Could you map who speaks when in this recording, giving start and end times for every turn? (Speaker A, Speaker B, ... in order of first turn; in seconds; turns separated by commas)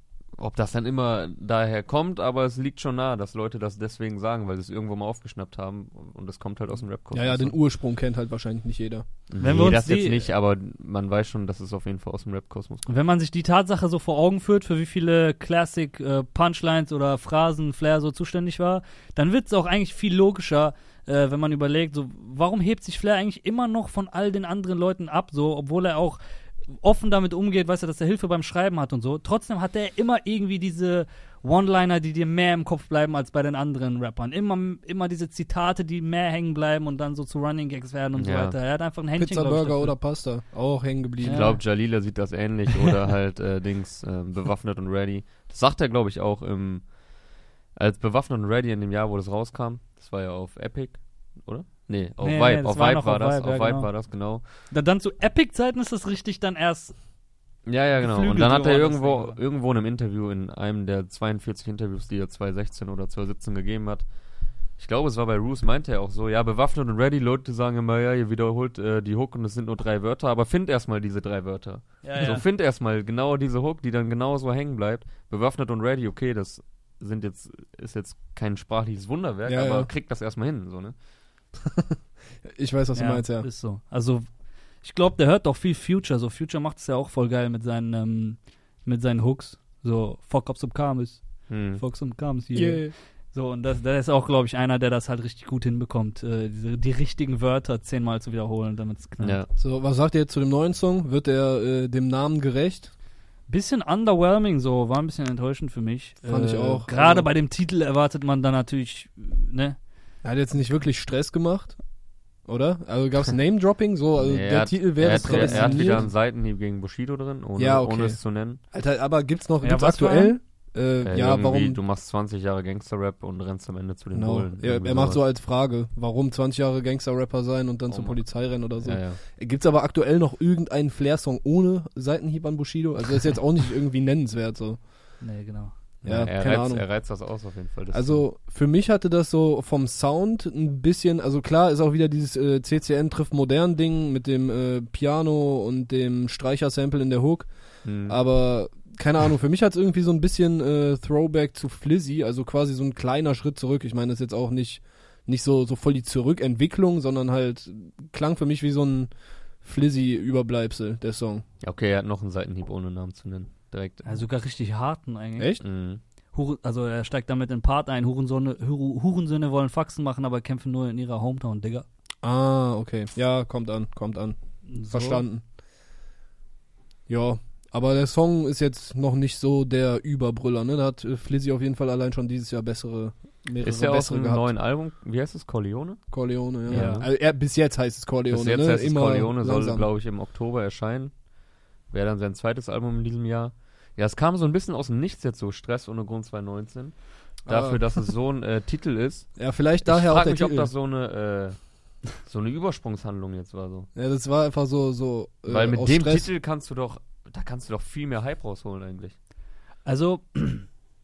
Speaker A: 0.4-7.6, Speaker B: 7.1-9.3, Speaker A: 9.3-12.9, Speaker C: 9.4-10.3, Speaker C: 12.9-40.0, Speaker A: 38.1-38.6, Speaker B: 39.2-41.5, Speaker C: 41.2-41.9, Speaker A: 41.3-54.5, Speaker C: 52.2-57.1, Speaker A: 57.6-64.1, Speaker C: 57.9-59.4, Speaker A: 64.8-81.0, Speaker C: 72.0-72.5, Speaker B: 79.5-79.9, Speaker B: 82.4-83.5, Speaker C: 82.9-99.4, Speaker A: 91.5-91.8, Speaker B: 92.5-93.0, Speaker A: 99.2-99.5, Speaker B: 99.6-102.9, Speaker C: 103.5-109.8, Speaker B: 106.2-107.3, Speaker B: 110.2-116.1, Speaker A: 114.2-118.6, Speaker C: 115.1-116.1, Speaker B: 117.6-121.8, Speaker C: 119.6-120.4, Speaker A: 121.0-125.2, Speaker B: 124.1-135.2, Speaker A: 127.9-129.2, Speaker C: 135.2-135.9, Speaker B: 136.0-137.2, Speaker A: 136.1-138.3, Speaker B: 137.9-161.4, Speaker A: 147.8-148.2, Speaker A: 161.6-164.2, Speaker C: 164.1-165.6, Speaker B: 165.4-165.6, Speaker A: 165.6-166.0, Speaker C: 166.3-171.9, Speaker B: 172.2-175.4, Speaker C: 174.7-175.2, Speaker B: 177.1-184.4, Speaker A: 183.6-187.1, Speaker B: 186.1-189.9, Speaker C: 186.7-187.1, Speaker A: 188.3-191.3, Speaker A: 191.8-203.9, Speaker B: 197.5-197.8, Speaker B: 199.4-200.7, Speaker B: 203.9-206.3, Speaker A: 205.5-209.2, Speaker C: 209.8-210.7